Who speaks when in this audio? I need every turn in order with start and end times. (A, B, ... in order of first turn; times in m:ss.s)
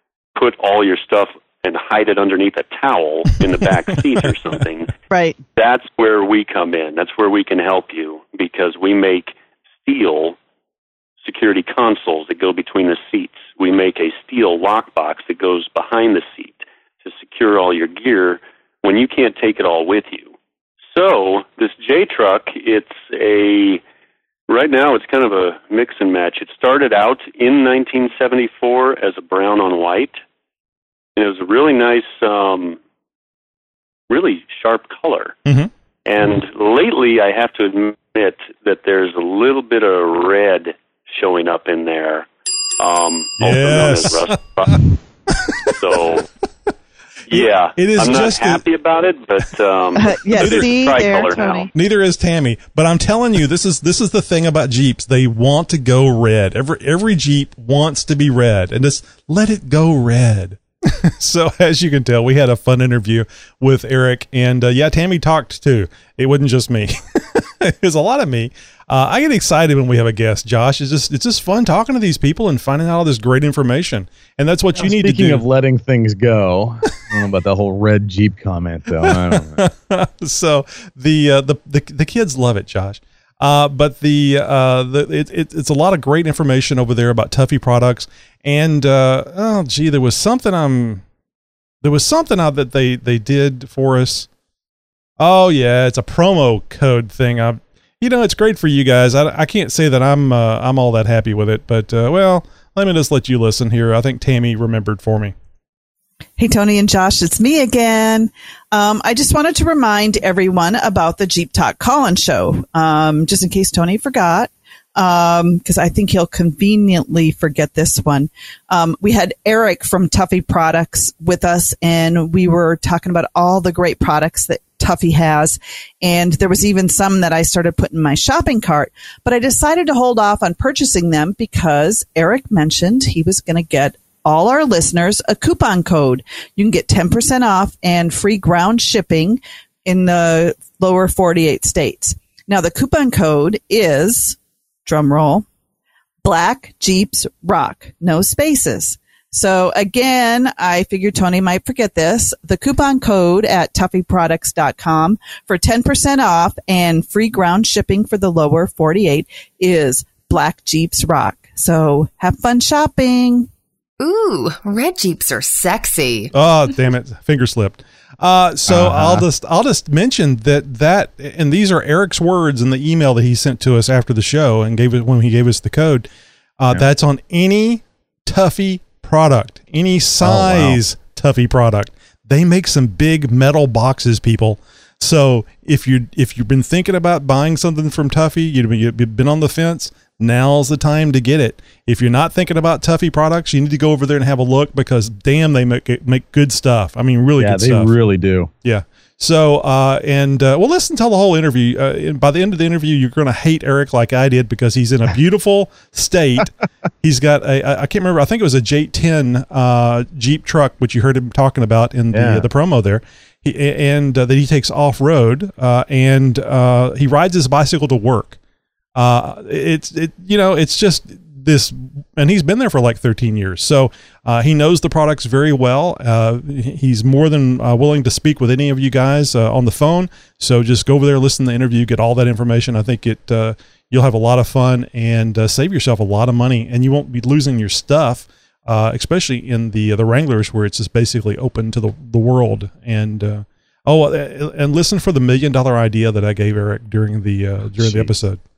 0:00.4-0:04.9 A
0:05.1-0:05.4 B
0:05.6-0:10.4 A
0:11.2-0:20.3 A
0:20.9-0:23.8 A
0:24.5-0:30.2 A
0:31.2-0:32.8 A
0:34.1-0:35.4 A
0:36.1-0:42.2 A
0:42.8-0:44.8 A
0:43.4-0:44.8 C
0:45.6-0:46.3 A
0:47.3-0:51.7 A
0:47.3-0:48.6 C
0:50.0-0:51.7 B
0:50.4-0:50.7 C
0:51.7-1:15.4 C
1:14.8-1:19.6 D
1:19.0-1:31.0 C
1:31.8-1:34.3 C
1:35.2-1:45.4 C
1:46.4-2:25.4 B
2:26.2-2:43.5 B
2:44.0-2:46.3 E
2:46.3-2:56.1 C
2:48.7-2:49.2 D
2:56.6-3:18.0 C
3:00.2-3:00.8 D
3:17.4-3:18.5 D
3:18.6-3:38.4 C
3:32.1-3:32.5 D
3:39.0-4:08.4 C
4:07.8-4:08.1 D